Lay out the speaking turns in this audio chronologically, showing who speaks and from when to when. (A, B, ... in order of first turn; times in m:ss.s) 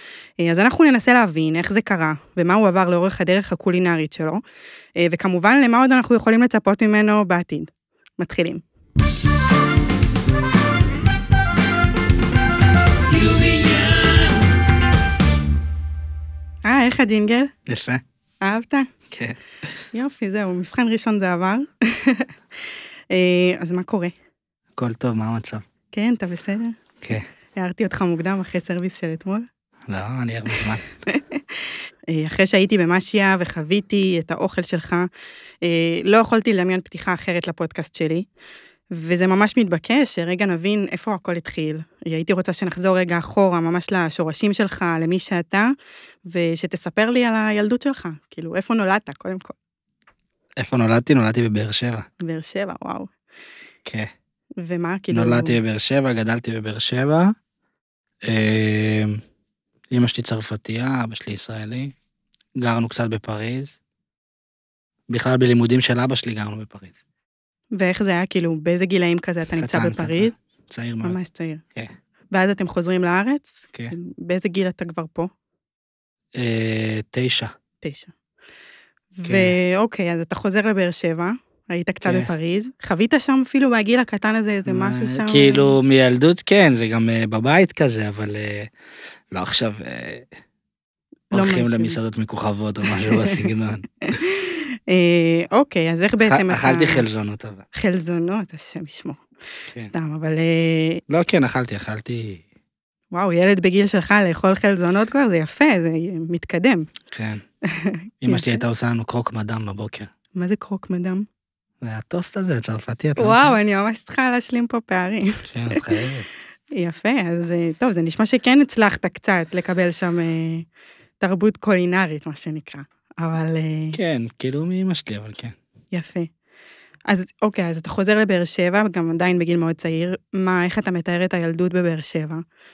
0:00.4-0:04.4 A
0:05.0-0:08.6 A
0:16.6-0:17.5 A
0:17.7-0:18.0 B
0:18.4-0:18.9 A
0:19.1-0:19.4 B
0:19.9-0:22.3 A
0:23.1-0:24.1 A
0:24.8-0:25.6 B
0:25.9-0:26.8 A
0:27.6-0:29.5 A
0:29.9-0:30.8 B
0:30.6-0:35.1 A
0:35.6-0:38.3 A
0:38.9-0:45.7 A
0:46.3-0:49.5 A
0:50.6-0:52.1 B
0:52.2-0:53.1 A
0:53.8-0:54.1 B
0:54.6-0:55.6 A
0:55.1-0:57.3 B
0:58.2-0:59.2 B
0:59.9-1:01.9 B
1:02.6-1:03.8 B
1:05.1-1:07.0 B
1:07.7-1:10.3 A
1:09.6-1:11.2 B
1:11.0-1:11.6 A
1:12.3-1:15.3 A
1:16.3-1:17.5 B
1:17.8-1:18.1 A
1:19.1-1:25.7 A
1:19.2-1:19.6 B
1:22.0-1:22.3 B
1:24.7-1:28.7 B
1:29.3-1:30.3 B
1:31.3-1:32.0 A
1:31.3-1:33.9 B
1:33.1-1:33.4 A
1:34.0-1:37.0 A
1:36.2-1:37.6 B
1:37.7-1:39.2 A
1:39.8-1:41.0 A
1:41.1-1:42.4 B
1:43.1-1:46.9 A
1:47.1-1:47.4 B
1:47.7-1:48.6 A
1:48.2-1:50.1 B
1:50.4-1:51.2 A
1:51.8-1:53.5 B
1:53.2-1:55.8 A
1:55.5-1:56.3 B
1:56.7-2:00.6 A
2:01.2-2:04.0 A
2:03.9-2:05.5 B
2:05.9-2:06.3 A
2:07.1-2:12.4 A